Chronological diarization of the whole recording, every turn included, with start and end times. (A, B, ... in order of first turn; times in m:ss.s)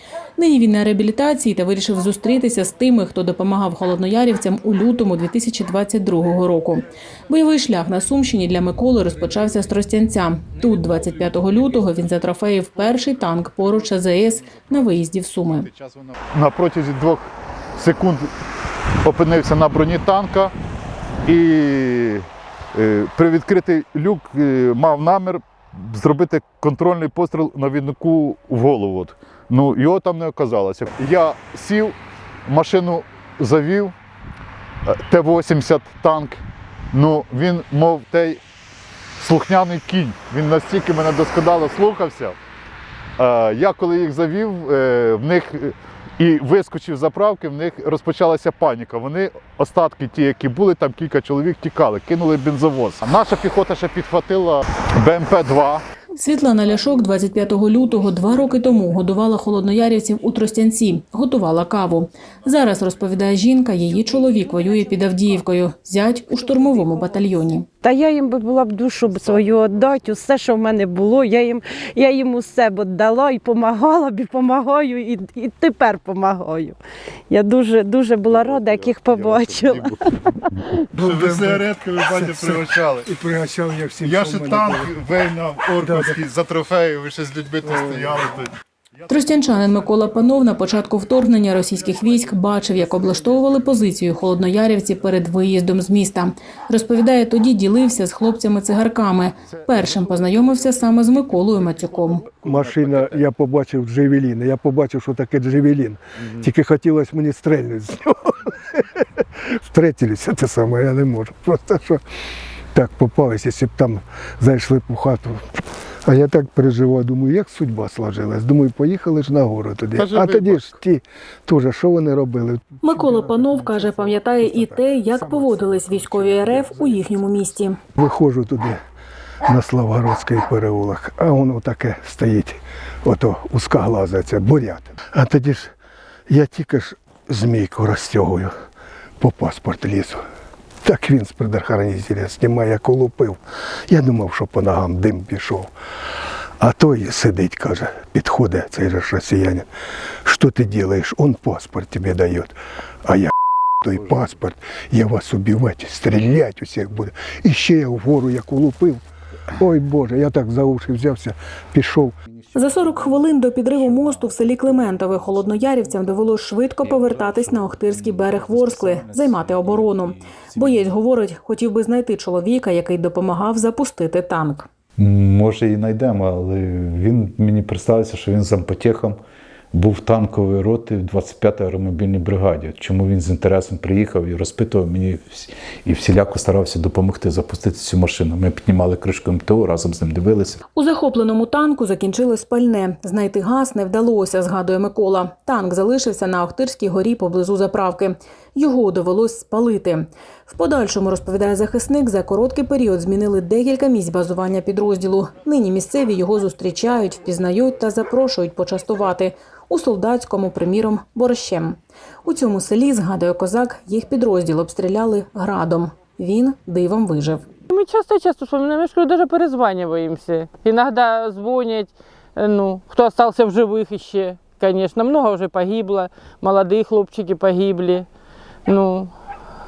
0:00.4-0:15.7 A
0:10.6-0:12.1 B
0:12.7-0:17.2 B
0:17.8-0:18.3 B
0:19.0-0:20.5 B
0:21.2-0:32.0 B
0:32.5-0:33.9 B
0:34.8-0:38.4 B
0:39.2-0:42.4 B
0:43.2-0:55.8 B
0:56.2-1:07.6 A
1:04.1-1:05.1 C
1:06.4-1:16.8 C
1:09.1-1:09.9 B
1:17.3-1:20.9 C
1:18.2-1:20.1 B
1:20.9-1:23.1 B
1:20.9-1:25.0 D
1:24.0-1:34.4 B
1:25.8-1:26.2 D
1:27.6-1:28.3 D
1:29.1-1:42.2 A
1:39.4-1:43.2 B
1:42.4-1:52.0 D
1:52.7-2:08.8 D
1:59.9-2:00.8 B
2:02.8-2:07.8 A
2:09.4-2:15.7 D
2:16.3-2:18.5 D
2:19.2-2:20.2 D
2:20.8-2:25.7 D
2:26.6-2:29.7 D
2:30.2-2:39.0 D
2:39.5-2:42.1 D
2:42.5-2:54.7 A
2:44.0-2:44.4 E
2:45.1-2:45.5 E
2:46.8-2:50.9 E
2:55.0-2:59.2 E
2:59.7-3:10.6 E
3:10.7-3:37.4 A
3:37.7-3:48.1 F
3:48.6-3:49.1 F